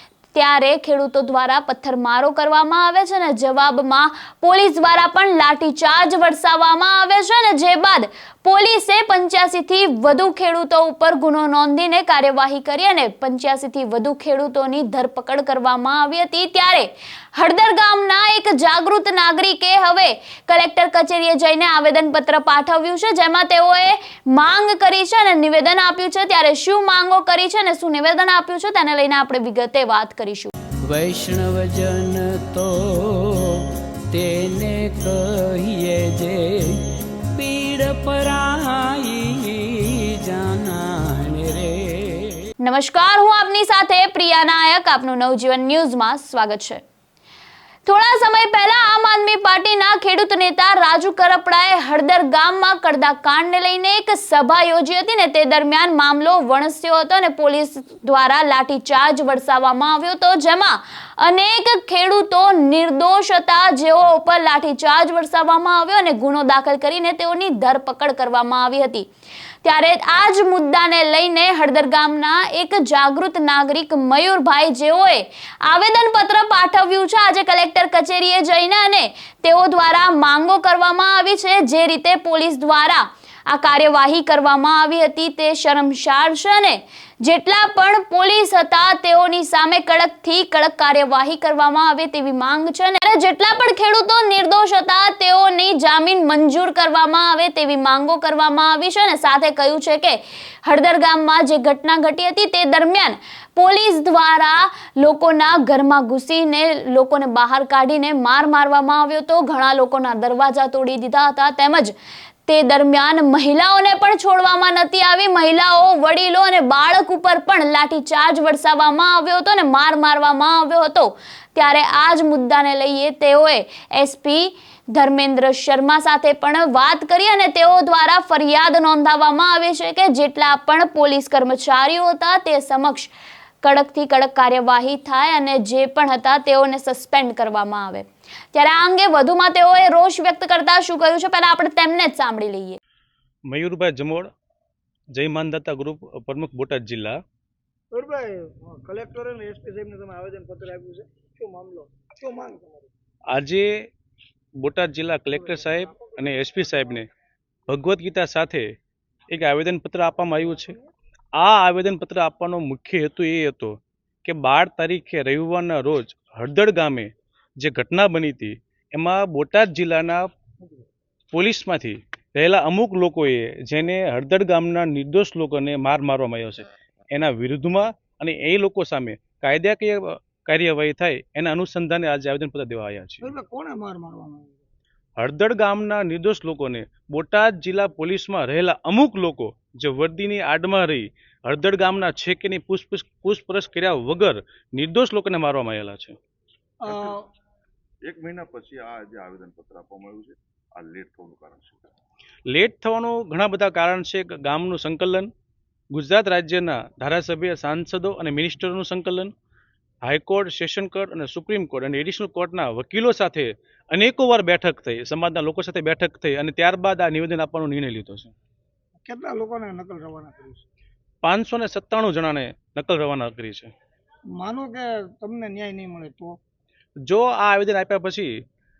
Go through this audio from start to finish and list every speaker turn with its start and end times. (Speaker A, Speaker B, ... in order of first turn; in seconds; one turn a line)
Speaker A: 0.3-30.5
Speaker B: 30.8-42.5
Speaker A: 42.6-46.8
Speaker A: 47.9-69.1
Speaker A: 69.6-111.9
Speaker A: 112.5-133.1
Speaker A: 133.6-142.8
Speaker C: 143.5-144.3
Speaker C: 145.2-147.2
Speaker D: 147.9-152.9
Speaker C: 153.3-153.7
Speaker C: 154.6-157.1
Speaker D: 155.8-156.1
Speaker C: 157.7-158.7
Speaker C: 159.3-160.8
Speaker C: 161.4-170.3
Speaker C: 171.3-183.3
Speaker D: 183.2-184.6
Speaker C: 185.2-196.2
Speaker D: 196.8-197.2
Speaker E: 198.0-201.9
Speaker C: 202.5-205.3
Speaker C: 205.9-209.3
Speaker C: 210.1-218.3
Speaker D: 219.0-220.6
Speaker C: 221.2-223.7
Speaker D: 224.4-226.4
Speaker C: 227.1-228.3